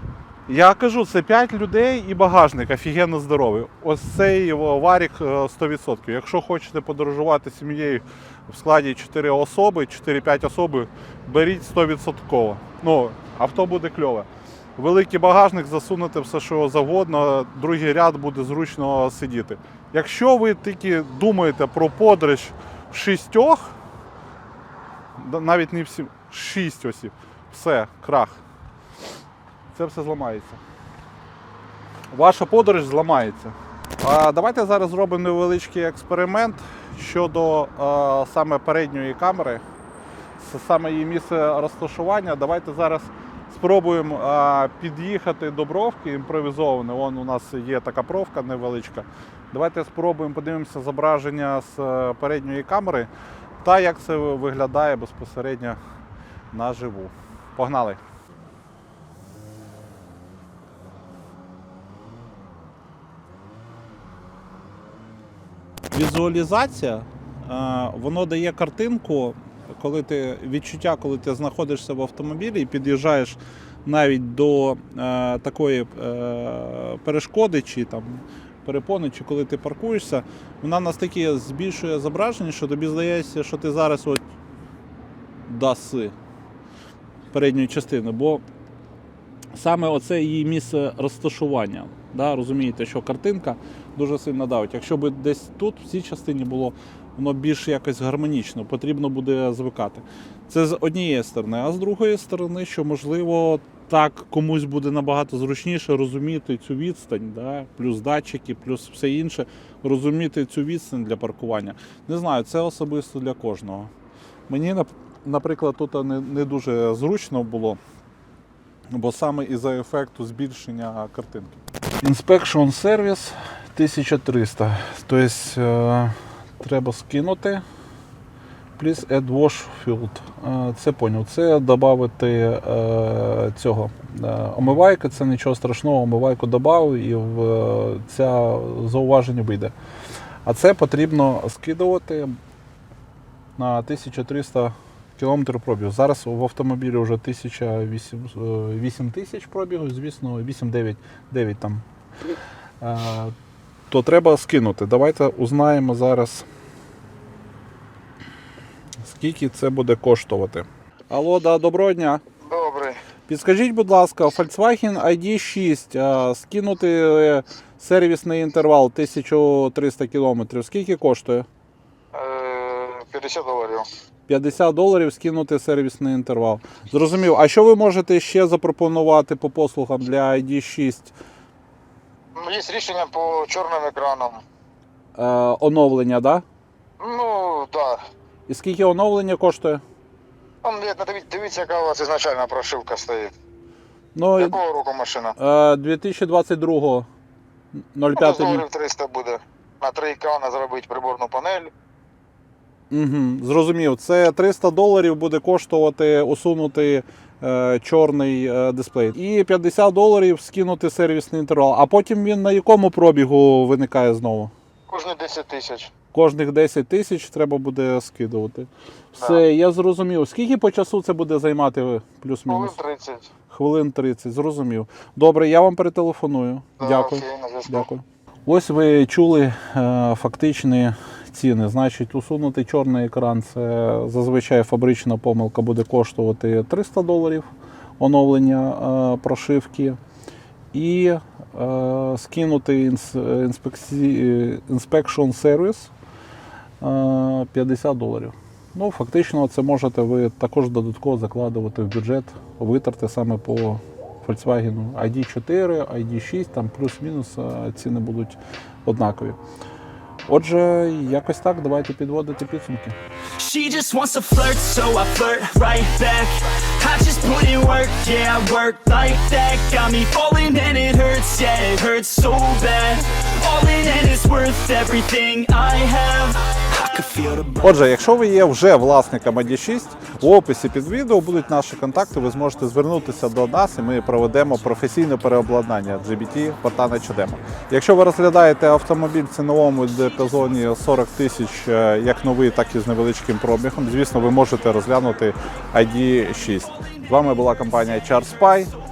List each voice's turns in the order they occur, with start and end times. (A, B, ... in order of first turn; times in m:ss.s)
0:00.5-0:23.7 A
0:25.2-0:28.4 A
0:29.7-0:30.6 A
0:32.1-0:39.6 A
0:40.4-0:53.1 A
0:53.6-0:55.8 A
0:56.5-0:58.0 A
1:05.9-1:24.2 A
1:25.5-1:26.2 A
1:27.3-1:28.4 A
1:29.6-1:53.9 A
1:54.5-1:57.8 A
1:58.9-2:07.6 A
2:08.8-2:19.7 A
2:20.4-2:22.4 A
2:23.6-2:31.8 A
2:32.8-2:33.3 A
2:33.9-2:36.5 A
2:39.0-2:42.2 A
2:42.4-2:43.0 B
2:43.3-2:51.5 A
2:52.1-2:53.8 B
2:54.3-3:01.1 A
3:02.4-3:04.4 B
3:05.2-3:06.4 A
3:07.0-3:08.0 B
3:08.5-3:09.8 A
3:10.6-3:13.3 B
3:14.2-3:14.6 A
3:14.4-3:15.3 B
3:15.4-3:17.1 A
3:17.9-3:18.6 A
3:18.2-3:21.7 B
3:22.9-3:34.5 A
3:34.9-3:35.9 B
3:36.1-3:42.8 A
3:39.2-3:39.4 B
3:42.5-3:43.3 B
3:43.5-4:00.0 A
3:46.8-3:47.9 B
4:00.7-4:05.9 A
4:06.8-4:19.4 A
4:20.3-4:23.0 A
4:23.4-4:37.8 C
4:37.6-4:58.8 A